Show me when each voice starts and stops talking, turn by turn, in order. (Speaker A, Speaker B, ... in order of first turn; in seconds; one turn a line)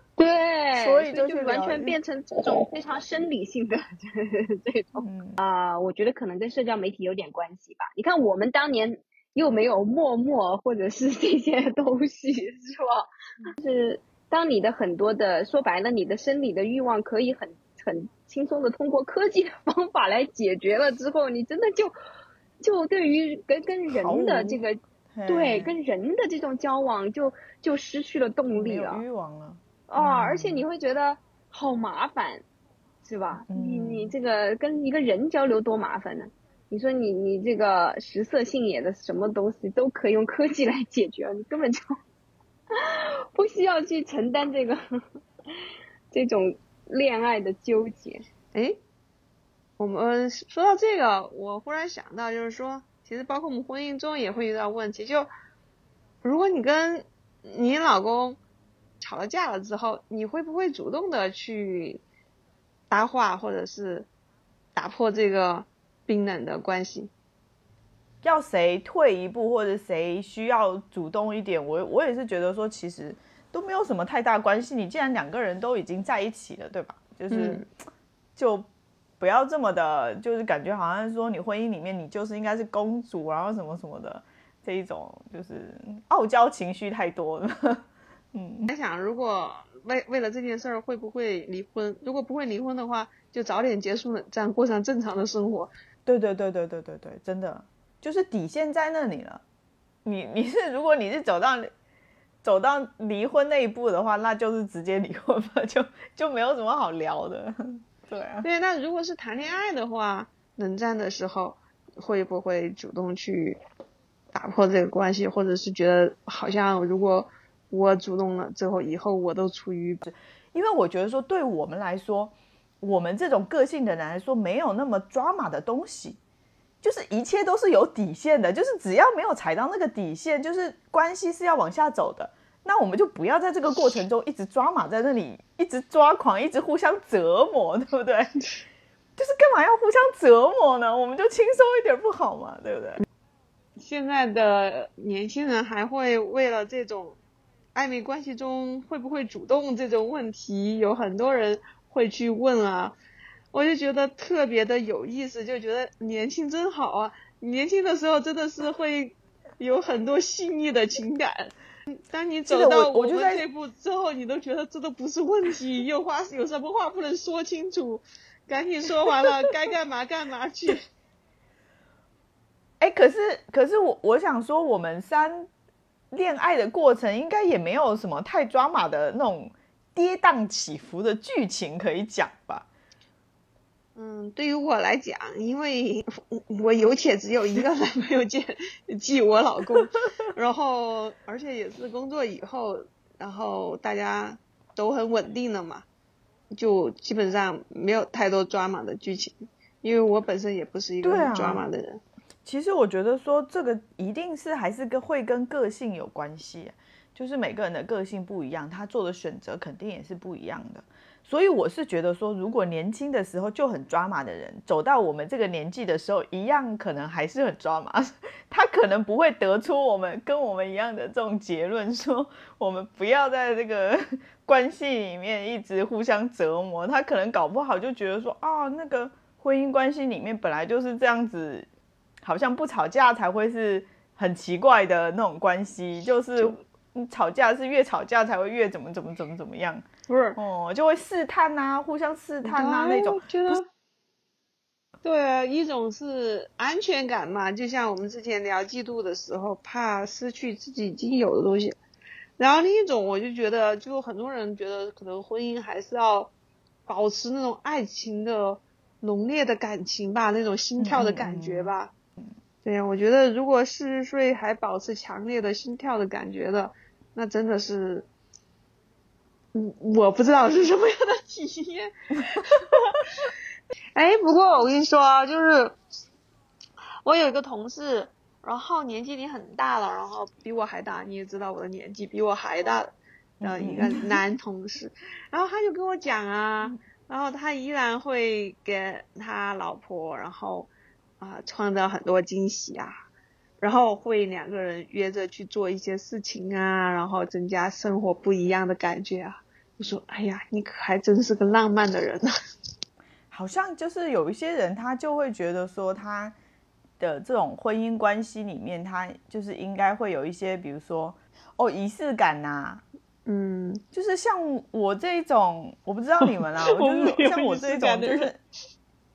Speaker A: 0.2-21.9
Speaker B: 0.8-2.0
Speaker B: 5.0-5.4
Speaker A: 22.6-29.0
Speaker B: 23.9-24.6
Speaker B: 25.1-25.7
Speaker B: 28.5-30.6
Speaker A: 29.9-32.4
Speaker A: 33.0-41.8
Speaker B: 33.5-34.1
Speaker A: 42.7-44.8
Speaker A: 46.1-48.2
Speaker C: 49.8-55.3
Speaker C: 56.2-58.4
Speaker C: 59.0-62.0
Speaker C: 62.9-64.1
Speaker C: 64.8-67.1
Speaker B: 68.2-77.6
Speaker C: 77.3-77.6
Speaker B: 78.3-78.7
Speaker B: 79.2-88.7
Speaker C: 88.7-95.7
Speaker B: 96.0-99.4
Speaker B: 100.0-101.7
Speaker B: 102.4-108.5
Speaker C: 108.4-113.6
Speaker C: 114.3-120.0
Speaker B: 120.0-126.2
Speaker B: 126.8-138.3
Speaker B: 139.2-143.0
Speaker C: 143.8-147.2
Speaker C: 147.7-152.9
Speaker C: 153.5-170.8
Speaker B: 162.5-163.4
Speaker B: 172.8-175.5
Speaker B: 176.1-182.7
Speaker C: 183.9-195.8
Speaker C: 196.5-202.0
Speaker B: 201.0-201.6
Speaker B: 202.4-231.7
Speaker B: 232.2-239.8
Speaker C: 240.1-240.4
Speaker B: 240.3-243.6
Speaker C: 242.4-243.7
Speaker C: 245.0-251.7
Speaker C: 252.4-256.3
Speaker C: 256.9-261.9
Speaker B: 260.8-261.7
Speaker C: 262.6-268.1
Speaker C: 269.5-273.0
Speaker C: 273.9-275.7
Speaker C: 277.0-292.9
Speaker B: 283.4-284.2
Speaker C: 293.6-302.3
Speaker B: 303.3-306.3
Speaker B: 307.0-312.8
Speaker C: 313.2-313.8
Speaker B: 313.9-318.4
Speaker C: 316.7-318.3